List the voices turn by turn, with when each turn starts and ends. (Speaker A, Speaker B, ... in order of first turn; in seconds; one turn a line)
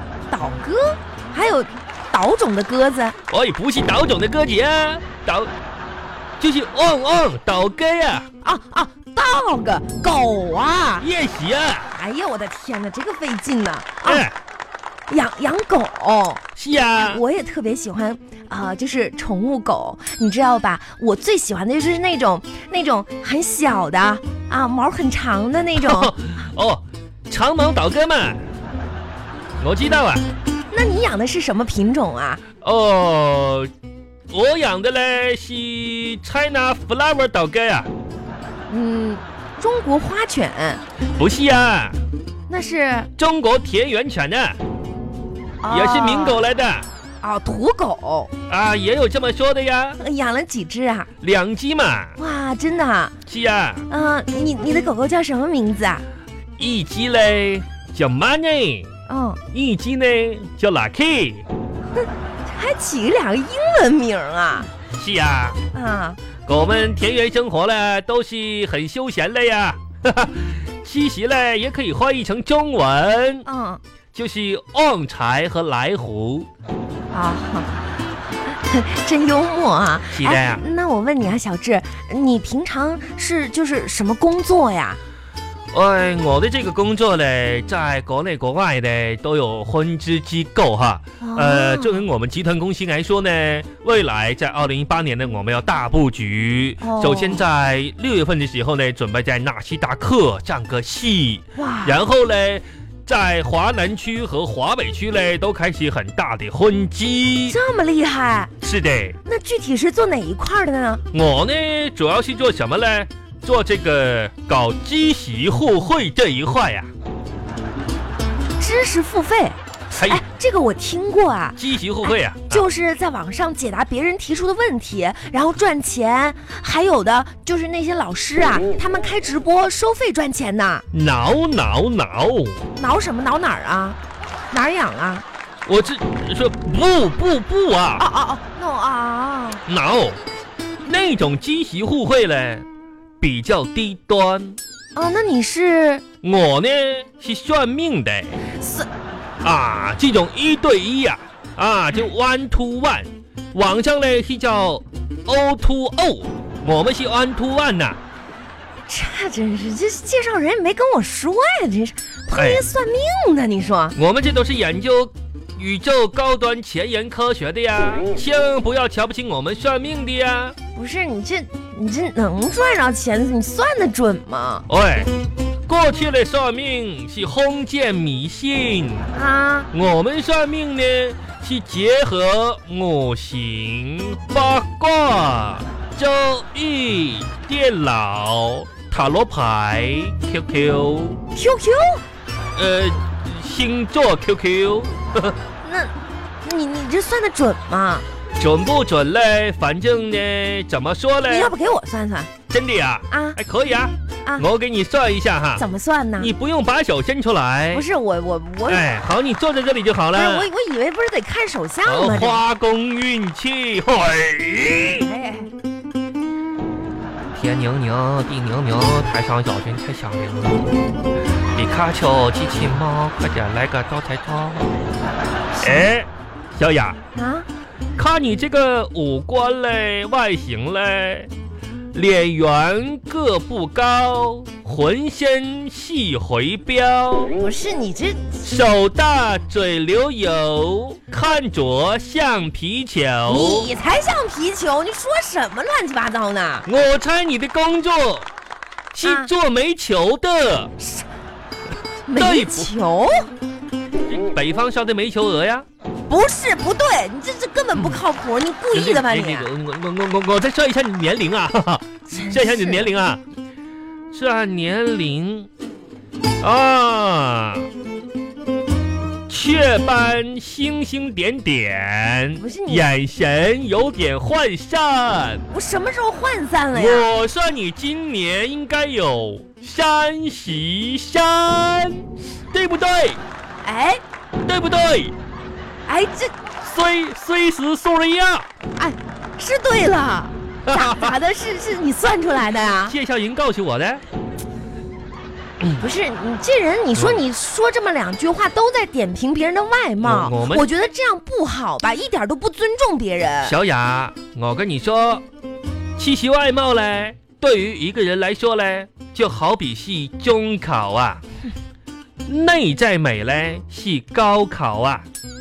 Speaker A: 0.3-3.2
Speaker B: 3.3-5.5
Speaker B: 6.4-8.3
Speaker A: 8.4-11.1
Speaker B: 11.0-11.9
Speaker A: 11.9-14.3
Speaker B: 14.0-14.4
Speaker A: 15.1-16.4
Speaker B: 16.6-17.2
Speaker A: 17.0-26.2
Speaker B: 25.8-28.4
Speaker B: 29.6-30.3
Speaker A: 30.7-32.4
Speaker B: 32.6-33.7
Speaker B: 34.3-37.9
Speaker A: 38.7-40.8
Speaker B: 41.2-42.0
Speaker A: 42.5-43.1
Speaker B: 43.2-44.6
Speaker A: 45.6-46.4
Speaker B: 45.7-46.9
Speaker A: 47.2-48.3
Speaker B: 48.5-50.0
Speaker A: 50.0-51.1
Speaker B: 51.2-52.2
Speaker A: 52.2-53.1
Speaker B: 53.3-53.9
Speaker A: 53.9-56.0
Speaker B: 56.6-58.9
Speaker A: 59.1-59.4
Speaker B: 59.5-61.5
Speaker A: 62.0-64.7
Speaker B: 64.9-65.6
Speaker A: 65.7-66.2
Speaker B: 66.5-73.5
Speaker A: 73.5-73.8
Speaker B: 74.1-76.5
Speaker A: 77.1-77.8
Speaker A: 78.4-85.0
Speaker B: 80.1-80.6
Speaker B: 85.7-107.6
Speaker A: 91.2-92.0
Speaker A: 96.8-97.4
Speaker A: 101.6-102.0
Speaker A: 107.5-108.5
Speaker B: 108.6-109.2
Speaker A: 109.2-111.0
Speaker B: 111.1-116.9
Speaker A: 118.6-130.8
Speaker B: 119.9-120.2
Speaker B: 121.6-122.6
Speaker B: 130.9-132.6
Speaker A: 132.8-134.0
Speaker A: 134.5-135.2
Speaker B: 135.7-138.1
Speaker A: 138.0-139.6
Speaker B: 139.7-140.2
Speaker B: 140.8-142.7
Speaker B: 143.2-144.6
Speaker A: 144.9-146.0
Speaker B: 146.2-148.4
Speaker A: 148.5-148.9
Speaker B: 149.4-158.0
Speaker A: 158.9-164.0
Speaker B: 162.3-162.6
Speaker B: 163.9-170.6
Speaker A: 170.8-174.7
Speaker B: 174.7-175.1
Speaker B: 175.7-179.1
Speaker A: 179.2-179.7
Speaker B: 179.7-191.2
Speaker A: 191.3-192.0
Speaker B: 192.6-195.4
Speaker A: 195.6-198.1
Speaker B: 198.4-201.5
Speaker A: 201.2-202.3
Speaker B: 202.5-205.6
Speaker A: 203.1-203.4
Speaker A: 205.6-206.3
Speaker B: 206.2-207.8
Speaker A: 207.7-208.9
Speaker B: 208.7-210.5
Speaker A: 210.1-212.4
Speaker B: 211.9-215.1
Speaker A: 214.9-215.5
Speaker B: 217.3-220.8
Speaker B: 221.5-224.7
Speaker A: 225.5-225.9
Speaker B: 225.6-227.0
Speaker A: 227.2-227.5
Speaker B: 228.0-231.3
Speaker B: 231.9-237.3
Speaker A: 237.4-238.5
Speaker B: 238.4-243.7
Speaker A: 243.3-246.7
Speaker B: 246.7-248.3
Speaker B: 248.9-250.7
Speaker A: 249.0-249.3
Speaker A: 250.8-251.1
Speaker A: 252.1-253.3
Speaker B: 252.2-252.7
Speaker B: 254.1-255.7
Speaker A: 256.1-259.5
Speaker B: 258.7-263.2
Speaker A: 262.1-262.9
Speaker B: 264.1-265.5
Speaker B: 266.4-267.7
Speaker B: 269.3-275.4
Speaker A: 272.4-272.9
Speaker A: 275.5-277.1
Speaker B: 276.7-283.2
Speaker A: 283.6-284.0
Speaker B: 284.4-285.1
Speaker A: 285.9-286.3
Speaker B: 286.6-288.5
Speaker A: 288.8-292.9
Speaker B: 290.7-291.1
Speaker B: 292.9-294.0
Speaker A: 295.8-303.6
Speaker B: 296.9-297.2
Speaker B: 300.0-300.7
Speaker B: 303.4-305.2
Speaker B: 306.0-311.2
Speaker B: 312.3-315.1